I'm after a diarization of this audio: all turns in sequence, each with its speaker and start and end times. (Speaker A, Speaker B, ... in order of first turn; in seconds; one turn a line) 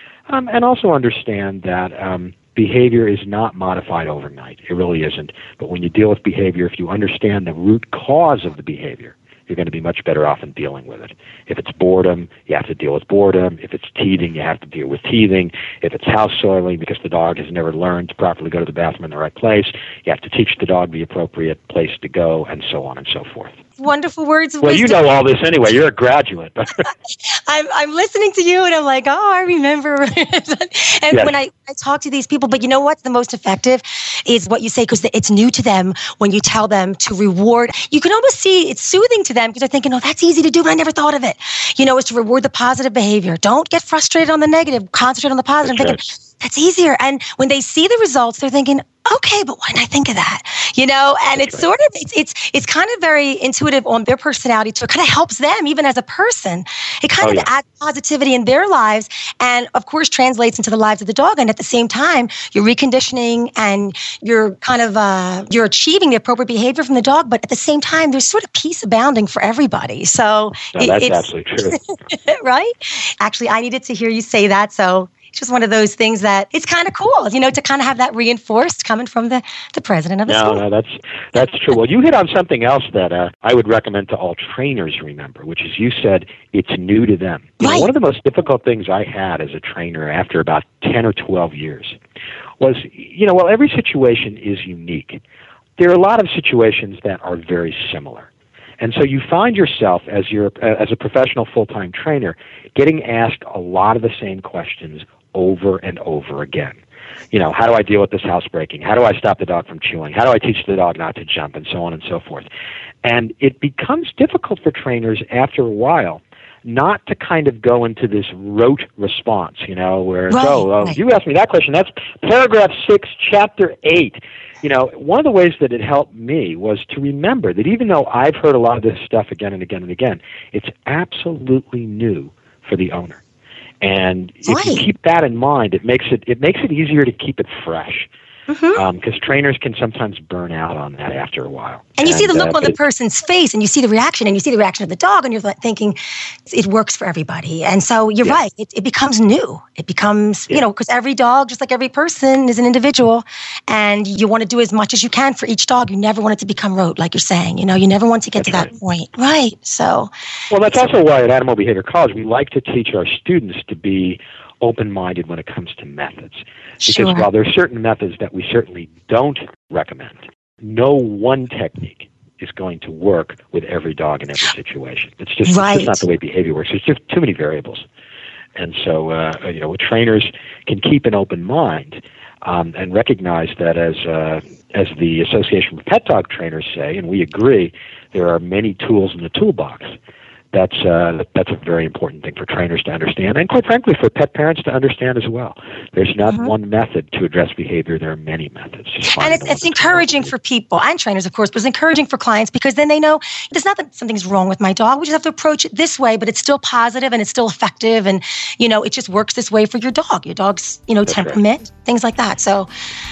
Speaker A: 0.3-23.6
Speaker B: 23.8-25.0
Speaker A: 24.6-26.9
Speaker B: 27.1-80.6
Speaker A: 45.6-46.0
Speaker A: 51.4-51.7
Speaker A: 57.2-57.5
Speaker A: 70.8-71.8
Speaker A: 80.3-92.0
Speaker B: 87.6-87.9
Speaker A: 92.6-95.2
Speaker A: 95.8-98.3
Speaker A: 98.8-106.8
Speaker A: 107.3-112.5
Speaker A: 113.0-133.2
Speaker B: 120.3-121.0
Speaker A: 133.8-138.1
Speaker B: 134.5-134.8
Speaker B: 138.5-138.8
Speaker A: 138.7-142.8
Speaker B: 142.0-160.1
Speaker A: 158.4-158.7
Speaker A: 160.5-177.8
Speaker B: 166.8-167.3
Speaker B: 175.4-176.1
Speaker A: 178.6-189.9
Speaker A: 190.5-200.3
Speaker B: 196.3-196.5
Speaker B: 199.2-212.7
Speaker A: 211.1-211.4